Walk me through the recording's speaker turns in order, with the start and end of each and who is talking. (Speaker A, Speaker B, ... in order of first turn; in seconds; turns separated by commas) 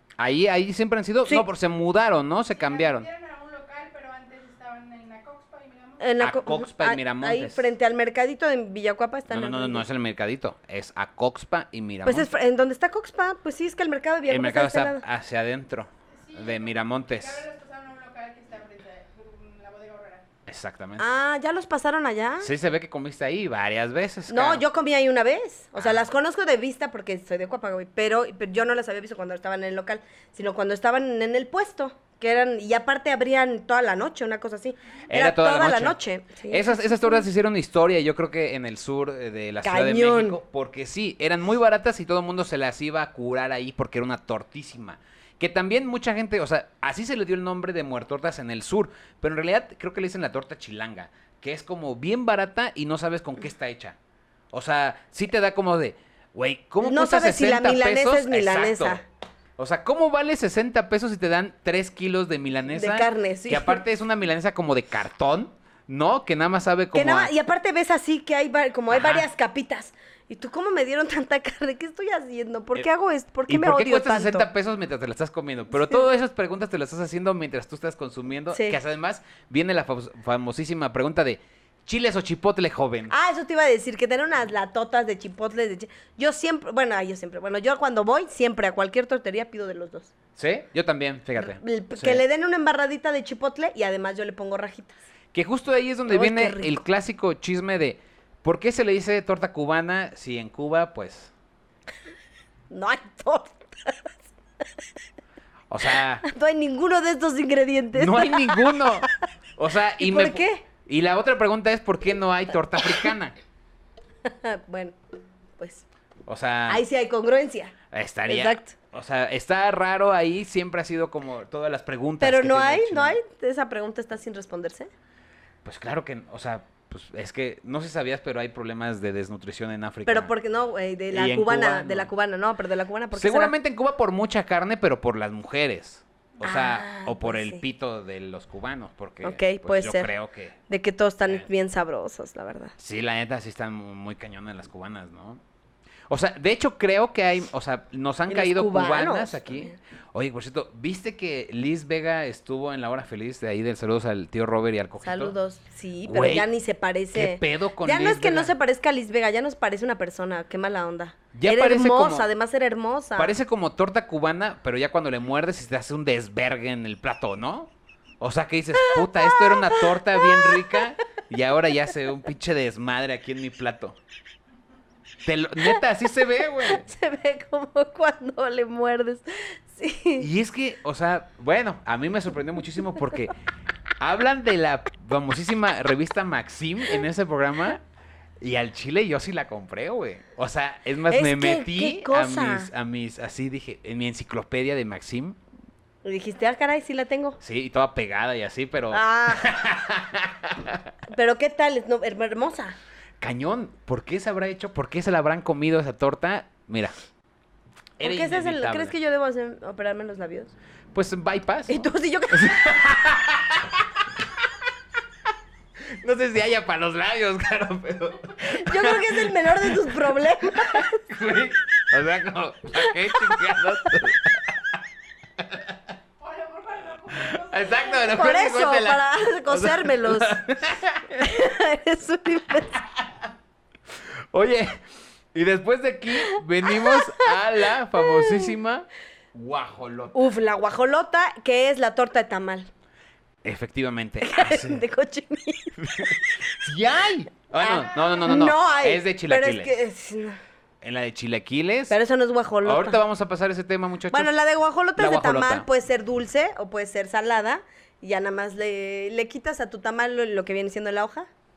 Speaker A: 0.2-3.1, Speaker B: 2.5-6.2, Speaker C: 6.0-9.8, Speaker A: 6.2-7.7, Speaker A: 9.3-12.3, Speaker C: 12.1-15.0, Speaker A: 14.3-17.4, Speaker B: 16.1-20.3, Speaker A: 20.5-21.0, Speaker C: 21.0-22.5, Speaker A: 22.4-24.6, Speaker C: 24.3-37.2, Speaker A: 25.8-26.0, Speaker A: 35.1-54.0, Speaker C: 39.6-40.4, Speaker A: 54.5-59.0, Speaker C: 56.8-59.0, Speaker A: 59.6-67.3, Speaker C: 62.7-63.8, Speaker C: 66.9-74.5, Speaker A: 68.9-69.3, Speaker A: 73.5-83.1, Speaker C: 78.5-78.8, Speaker C: 83.1-90.1, Speaker A: 90.4-92.2, Speaker C: 91.4-95.0, Speaker A: 95.3-101.3, Speaker C: 96.1-96.8, Speaker C: 102.7-104.2, Speaker A: 105.7-106.2, Speaker C: 106.2-108.9, Speaker A: 107.9-113.3, Speaker C: 110.0-110.6, Speaker C: 114.2-115.0, Speaker C: 115.6-115.8, Speaker A: 116.3-116.8, Speaker C: 116.7-117.8, Speaker A: 117.9-123.2, Speaker C: 118.3-118.7, Speaker C: 122.2-124.9, Speaker A: 125.7-130.3, Speaker C: 130.1-133.5, Speaker A: 131.1-132.1, Speaker A: 133.1-140.6, Speaker C: 136.4-137.6, Speaker C: 139.2-140.1, Speaker C: 140.7-142.8, Speaker A: 142.8-145.4, Speaker A: 146.1-155.3, Speaker C: 148.3-149.8, Speaker C: 155.0-163.3, Speaker A: 156.1-156.5, Speaker A: 157.1-158.5, Speaker A: 161.3-162.3, Speaker A: 163.2-174.0, Speaker C: 168.8-170.8, Speaker A: 175.2-176.9, Speaker C: 176.6-180.3, Speaker A: 180.2-183.3, Speaker A: 184.0-187.8, Speaker A: 188.4-195.4, Speaker C: 191.1-192.7, Speaker C: 196.0-197.4, Speaker A: 197.4-200.9, Speaker C: 198.9-199.5, Speaker C: 201.1-202.8, Speaker A: 203.2-206.9, Speaker A: 208.0-208.9, Speaker C: 208.0-210.5, Speaker A: 210.9-211.8, Speaker C: 211.7-212.8, Speaker A: 212.3-214.5, Speaker A: 215.8-224.8, Speaker C: 218.4-221.0, Speaker C: 222.8-223.6, Speaker A: 225.4-225.8, Speaker B: 226.2-228.1, Speaker A: 227.1-231.3, Speaker C: 228.0-230.4, Speaker C: 231.2-232.8, Speaker A: 232.8-233.1, Speaker A: 233.9-234.8, Speaker A: 235.3-240.3, Speaker C: 236.7-237.3, Speaker C: 238.0-238.5, Speaker C: 240.1-242.7, Speaker A: 243.4-244.8, Speaker C: 244.2-246.3, Speaker A: 245.8-249.8, Speaker C: 247.6-250.4, Speaker A: 250.8-251.9, Speaker C: 251.9-253.0, Speaker A: 252.6-254.3, Speaker C: 254.1-261.3, Speaker A: 255.0-255.7